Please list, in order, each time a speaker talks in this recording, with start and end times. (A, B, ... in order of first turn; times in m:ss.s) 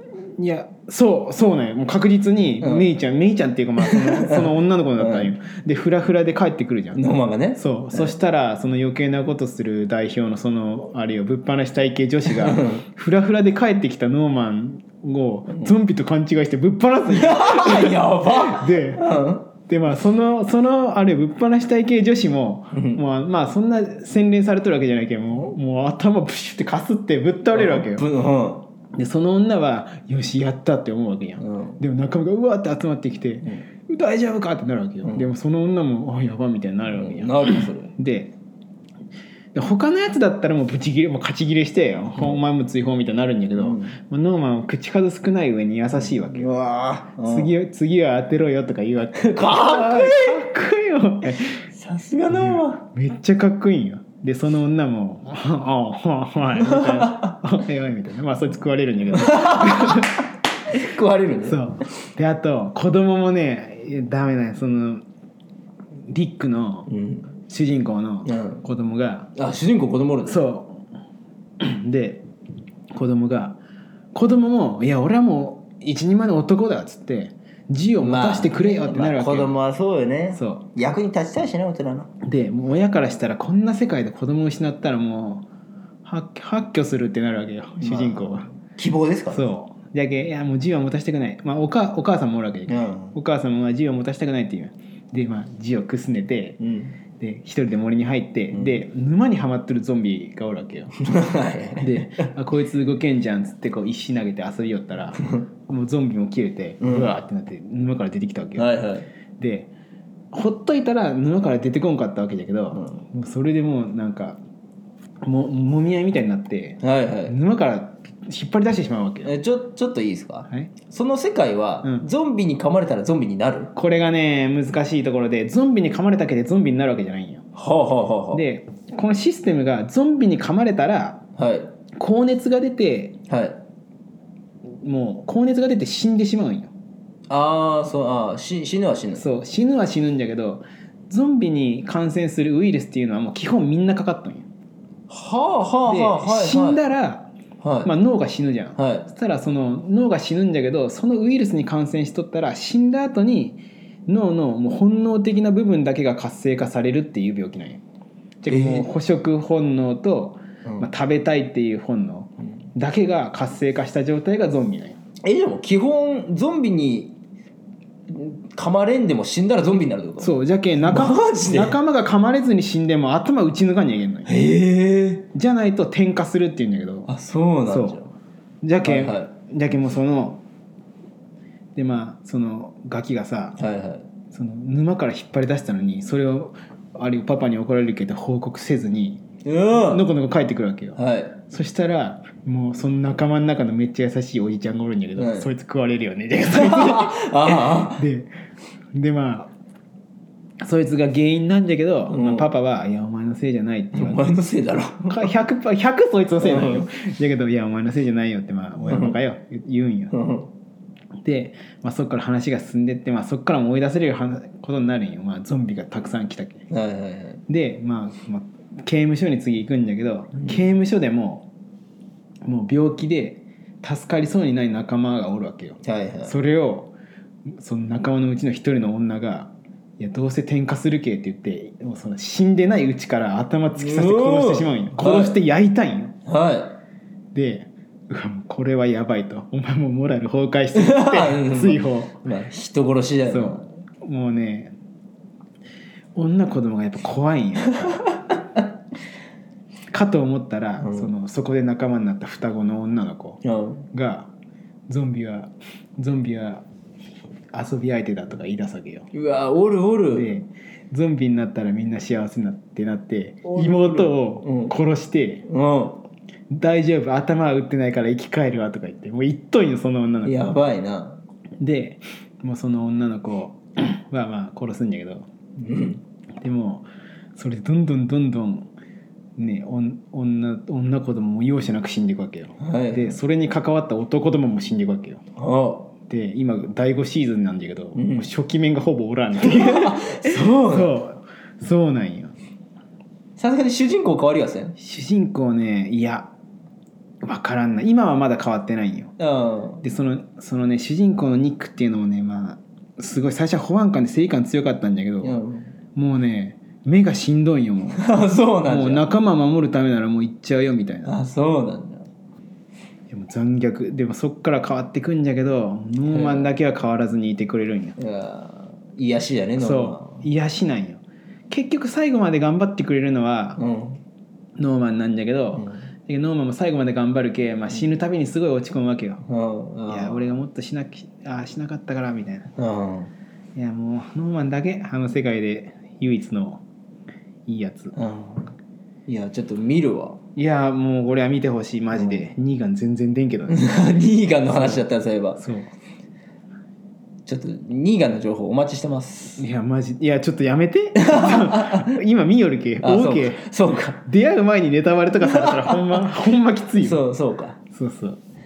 0:00.4-0:07.0 A
0:02.6-0:02.9 B
0:03.8-0:05.3 B
0:06.9-0:08.1 B
0:07.6-0:28.0 A
0:12.3-0:12.8 B
0:17.1-0:19.4 B
0:22.7-0:23.0 B
0:27.5-0:28.7 B
0:29.0-0:38.4 A
0:31.4-0:31.8 B
0:36.9-0:37.9 B
0:39.5-0:46.5 A
0:43.6-0:44.0 B
0:46.0-0:47.5 B
0:47.2-0:51.7 A
0:49.2-0:50.4 B
0:51.7-0:52.8 B
0:52.3-1:00.2 A
0:56.6-0:57.3 B
0:59.1-1:01.6 B
1:01.4-1:05.0 A
1:06.1-1:09.3 A
1:06.9-1:07.3 B
1:08.3-1:08.6 B
1:09.4-1:10.4 B
1:10.2-1:10.8 A
1:11.6-1:12.2 A
1:12.9-1:13.6 A
1:14.1-1:19.6 A
1:18.0-1:22.1 B
1:20.3-1:20.7 A
1:22.2-1:25.5 A
1:26.0-1:28.5 A
1:27.8-1:29.5 B
1:29.3-1:36.6 A
1:32.7-1:33.2 B
1:36.6-1:37.0 B
1:37.2-1:41.0 A
1:38.5-1:38.8 B
1:41.0-1:42.0 B
1:41.8-1:48.8 A
1:46.8-1:47.1 B
1:48.6-1:49.1 B
1:49.4-1:49.7 A
1:50.3-1:54.4 A
1:52.8-1:53.0 B
1:55.2-1:59.3 A
1:56.8-1:57.4 B
1:59.2-2:03.7 B
2:03.7-2:07.4 A
2:07.5-2:08.4 B
2:08.3-2:11.2 A
2:11.4-2:11.7 B
2:12.0-2:13.2 A
2:13.3-2:13.6 B
2:14.8-2:16.7 A
2:17.3-2:19.3 B
2:19.2-2:24.5 A
2:25.1-2:26.8 B
2:25.8-2:27.3 A
2:27.6-2:27.9 B
2:27.8-2:37.8 A
2:28.8-2:29.1 B
2:38.4-2:45.0 A
2:38.5-2:38.9 B
2:40.6-2:40.9 B
2:45.2-2:47.2 B
2:48.1-2:51.8 B
2:50.2-2:54.3 A
2:54.2-2:55.3 B
2:55.3-2:57.1 A
2:57.1-2:58.2 B
2:57.7-2:58.0 A
2:58.6-3:00.4 A
2:58.8-2:59.3 B
3:01.8-3:03.6 A
3:03.6-3:04.1 B
3:04.3-3:18.3 A
3:09.4-3:10.1 B
3:11.0-3:11.4 B
3:15.2-3:15.5 B
3:16.5-3:18.0 B
3:18.9-3:19.5 A
3:20.6-3:24.3 A
3:22.1-3:22.5 B
3:23.9-3:25.3 B
3:25.1-3:30.2 A
3:26.4-3:26.8 B
3:28.9-3:29.2 B
3:30.1-3:30.5 B
3:31.2-3:36.6 A
3:36.7-3:37.4 B
3:37.5-3:41.5 A
3:42.4-3:46.9 A
3:45.8-3:46.4 B
3:47.6-3:56.1 A
3:53.8-3:55.4 B
3:56.3-3:56.8 B
3:57.3-4:02.2 A
4:00.7-4:03.7 B
4:03.3-4:04.7 A
4:06.2-4:08.1 A
4:09.9-4:14.3 A
4:10.8-4:11.1 B
4:13.4-4:13.8 B
4:14.9-4:16.6 A
4:17.5-4:19.1 A
4:19.1-4:20.3 B
4:20.1-4:25.5 A
4:23.5-4:24.7 B
4:25.5-4:26.0 B
4:26.5-4:30.5 A
4:30.2-4:31.2 B
4:31.6-4:35.3 A
4:35.6-4:36.0 B
4:36.4-4:38.7 A
4:39.4-4:45.2 A
4:42.6-4:43.2 B
4:45.4-4:45.9 B
4:46.1-4:52.3 A
4:48.0-4:48.3 B
4:49.4-4:51.0 B
4:53.4-4:54.8 B
4:54.8-4:56.3 A
4:57.2-4:59.1 A
4:59.2-4:59.8 B
4:59.8-5:05.4 A
5:05.2-5:05.7 B
5:06.0-5:11.2 A
5:08.0-5:09.1 B
5:11.0-5:12.1 B
5:13.1-5:18.0 A
5:16.1-5:16.5 B
5:18.0-5:20.2 B
5:19.6-5:23.6 A
5:23.6-5:24.0 B
5:24.6-5:29.2 A
5:29.3-5:30.3 B
5:29.9-5:32.5 A
5:32.6-5:33.1 B
5:33.6-5:36.6 A
5:37.5-5:38.0 A
5:38.0-5:38.5 B
5:39.1-5:40.2 B
5:40.4-5:43.6 A
5:43.5-5:45.4 B
5:44.5-5:44.8 A
5:45.4-5:45.7 A
5:47.3-5:49.4 B
5:49.4-5:57.1 A
5:51.0-5:51.9 B
5:52.8-5:54.0 B
5:55.2-5:56.0 B
5:56.8-5:57.6 B
5:57.7-5:58.2 A